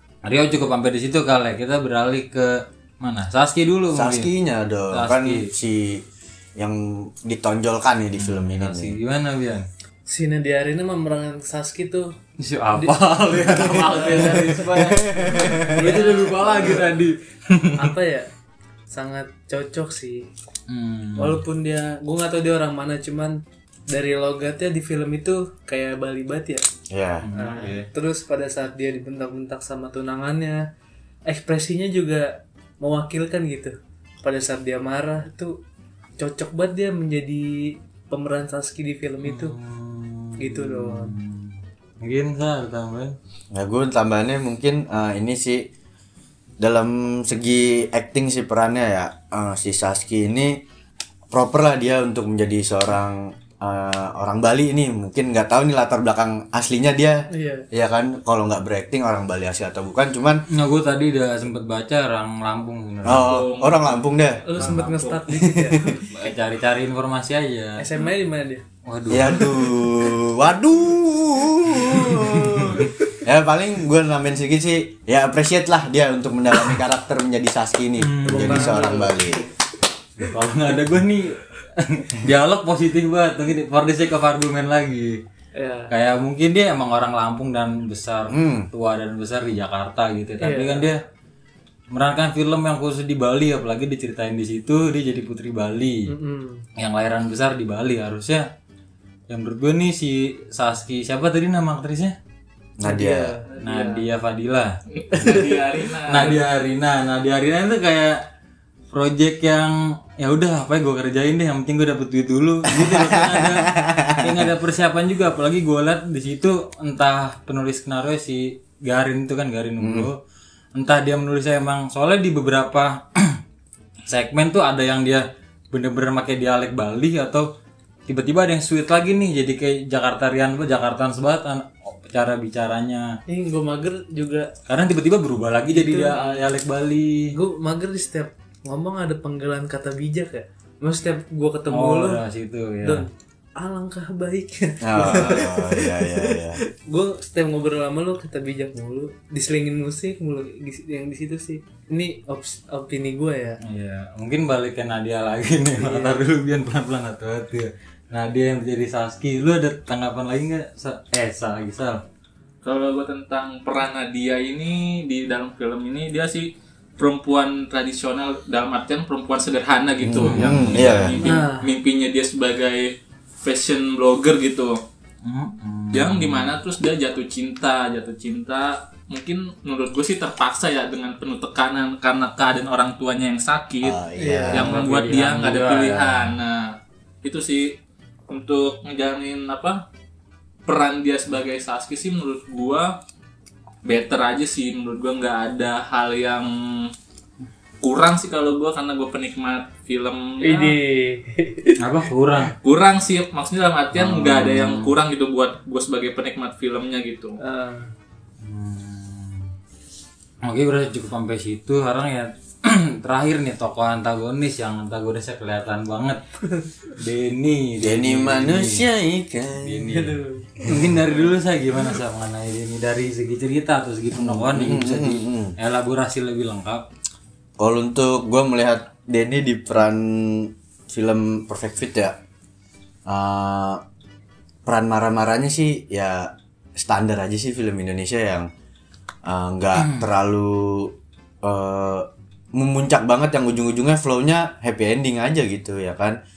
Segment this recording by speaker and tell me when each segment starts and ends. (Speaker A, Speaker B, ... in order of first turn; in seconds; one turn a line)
Speaker A: 0.2-4.3
Speaker B: 3.9-6.0
Speaker A: 4.9-5.5
Speaker B: 6.6-8.9
Speaker A: 8.2-9.6
Speaker C: 10.1-12.1
Speaker A: 12.4-17.9
Speaker C: 12.7-17.0
Speaker B: 14.7-15.9
Speaker C: 17.8-18.3
Speaker C: 18.9-20.3
Speaker A: 20.7-21.4
Speaker C: 21.1-26.6
Speaker B: 26.9-27.2
Speaker A: 27.2-27.9
Speaker C: 27.3-30.6
Speaker C: 31.3-35.6
Speaker C: 36.2-39.5
Speaker A: 39.2-43.1
Speaker C: 40.4-41.1
Speaker B: 43.5-45.7
Speaker B: 46.6-50.6
Speaker B: 51.3-60.4
Speaker C: 57.3-57.6
Speaker A: 60.5-63.3
Speaker B: 63.0-64.4
Speaker D: 63.1-65.3
Speaker C: 64.4-66.0
Speaker B: 65.3-66.0
Speaker A: 66.1-67.8
Speaker C: 67.8-68.6
Speaker A: 68.8-69.5
Speaker B: 69.1-79.5
Speaker A: 72.0-72.9
Speaker A: 78.0-78.9
Speaker C: 78.3-79.4
Speaker A: 80.2-85.2
Speaker C: 85.5-85.9
Speaker A: 85.9-91.0
Speaker B: 88.3-88.7
Speaker C: 90.4-90.9
Speaker A: 91.9-96.1
Speaker C: 96.1-96.7
Speaker A: 96.8-98.5
Speaker A: 99.3-102.2
Speaker B: 102.8-103.4
Speaker C: 102.8-103.5
Speaker D: 103.5-104.0
Speaker A: 103.6-105.4
Speaker D: 104.9-106.4
Speaker C: 105.1-105.6
Speaker A: 106.1-108.2
Speaker A: 108.9-120.2
Speaker B: 112.7-114.5
Speaker B: 119.8-120.1
Speaker A: 120.7-123.4
Speaker A: 124.1-127.5
Speaker A: 128.1-133.2
Speaker C: 133.3-134.5
Speaker A: 134.7-137.3
Speaker C: 135.7-136.4
Speaker C: 137.3-142.2
Speaker A: 141.7-143.0
Speaker C: 142.8-153.6
Speaker B: 144.8-146.6
Speaker A: 153.6-162.0
Speaker C: 155.8-156.2
Speaker D: 162.6-174.8
Speaker B: 170.0-171.2
Speaker A: 170.1-171.1
Speaker C: 171.2-171.7
Speaker A: 175.2-176.5
Speaker D: 175.9-184.0
Speaker B: 183.8-184.7
Speaker C: 184.2-184.6
Speaker D: 184.5-187.8
Speaker A: 184.5-186.3
Speaker D: 188.3-189.8
Speaker D: 190.7-193.0
Speaker D: 193.8-196.9
Speaker D: 197.8-200.8
Speaker C: 200.4-201.8
Speaker A: 201.8-202.6
Speaker D: 202.6-207.4
Speaker A: 203.9-204.9
Speaker C: 207.4-207.9
Speaker A: 208.4-209.5
Speaker A: 210.4-216.2
Speaker A: 216.9-218.8
Speaker B: 217.8-219.9
Speaker A: 219.6-226.9
Speaker C: 219.9-220.6
Speaker B: 220.6-221.0
Speaker B: 224.1-225.6
Speaker B: 227.6-232.2
Speaker B: 233.1-233.8
Speaker B: 234.7-238.5
Speaker B: 239.2-246.2
Speaker A: 239.7-240.1